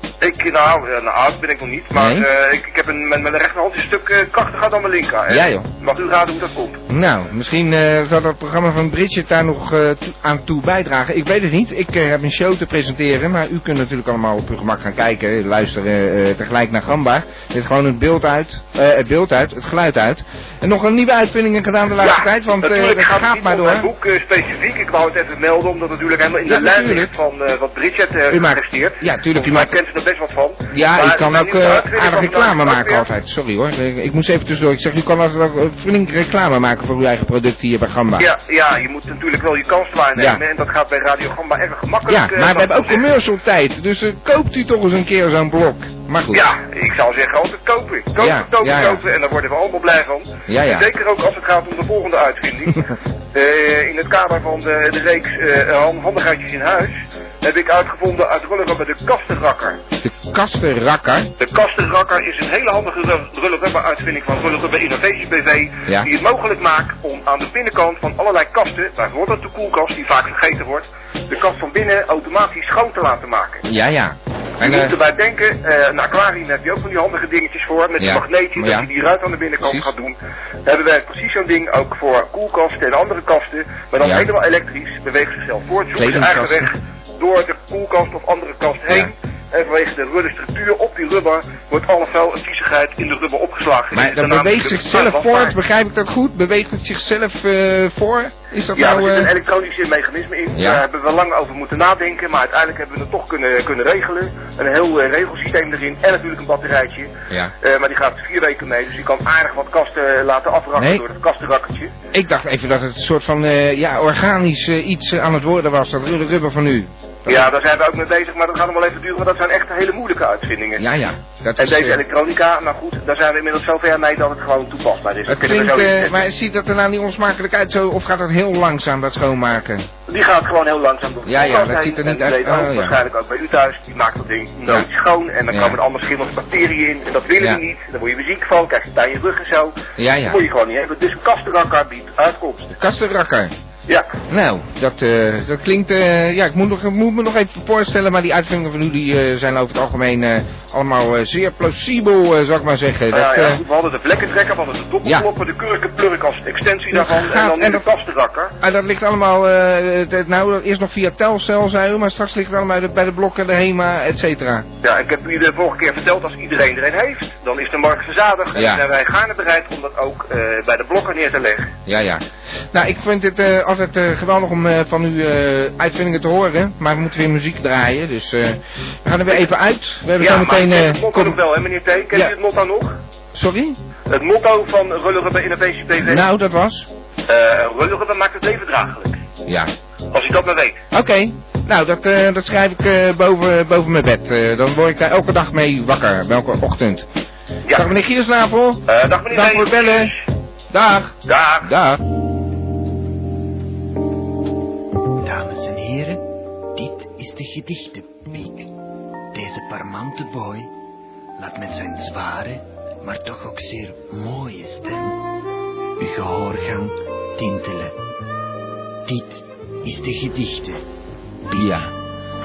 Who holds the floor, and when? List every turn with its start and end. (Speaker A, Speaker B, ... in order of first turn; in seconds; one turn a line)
Speaker A: 0.2-6.8
Speaker B: 1.9-2.3
Speaker B: 5.3-5.7
Speaker B: 6.9-23.9
Speaker A: 22.0-33.0
Speaker B: 26.4-27.1
Speaker B: 28.3-29.8
Speaker B: 30.7-38.3
Speaker A: 38.2-43.0
Speaker B: 40.1-40.4
Speaker B: 42.1-46.4
Speaker A: 46.3-59.8
Speaker B: 48.2-49.0
Speaker B: 50.5-50.9
Speaker B: 60.0-61.3
Speaker A: 61.4-73.6
Speaker B: 73.7-74.9
Speaker A: 74.6-95.5
Speaker B: 78.0-78.9
Speaker B: 79.6-79.9
Speaker B: 84.0-84.3
Speaker B: 86.0-86.7
Speaker B: 93.9-99.3
Speaker A: 98.7-111.9
Speaker B: 100.5-100.8
Speaker B: 110.8-111.0
Speaker B: 112.1-117.5
Speaker A: 117.3-120.8
Speaker B: 120.8-122.0
Speaker A: 121.6-126.2
Speaker B: 125.3-129.9
Speaker A: 130.1-142.7
Speaker B: 131.2-132.9
Speaker B: 135.5-135.8
Speaker B: 140.0-140.4
Speaker B: 142.7-143.5
Speaker B: 144.3-153.6
Speaker A: 153.1-158.5
Speaker B: 156.9-157.8
Speaker B: 158.6-164.7
Speaker A: 164.8-171.7
Speaker B: 168.5-168.8
Speaker B: 171.8-181.4
Speaker A: 180.2-183.0
Speaker B: 183.3-183.8
Speaker A: 184.1-186.2
Speaker B: 186.0-186.9
Speaker A: 187.3-189.2
Speaker B: 189.4-189.7
Speaker A: 190.1-190.8
Speaker B: 190.9-197.1
Speaker B: 197.7-200.1
Speaker A: 198.9-200.2
Speaker B: 200.7-202.0
Speaker A: 201.3-201.7
Speaker C: 205.2-206.2
Speaker C: 206.7-208.7
Speaker C: 209.3-210.7
Speaker C: 211.4-215.2
Speaker C: 216.0-217.9
Speaker C: 219.1-220.8
Speaker C: 221.5-221.8
Speaker B: 221.5-221.9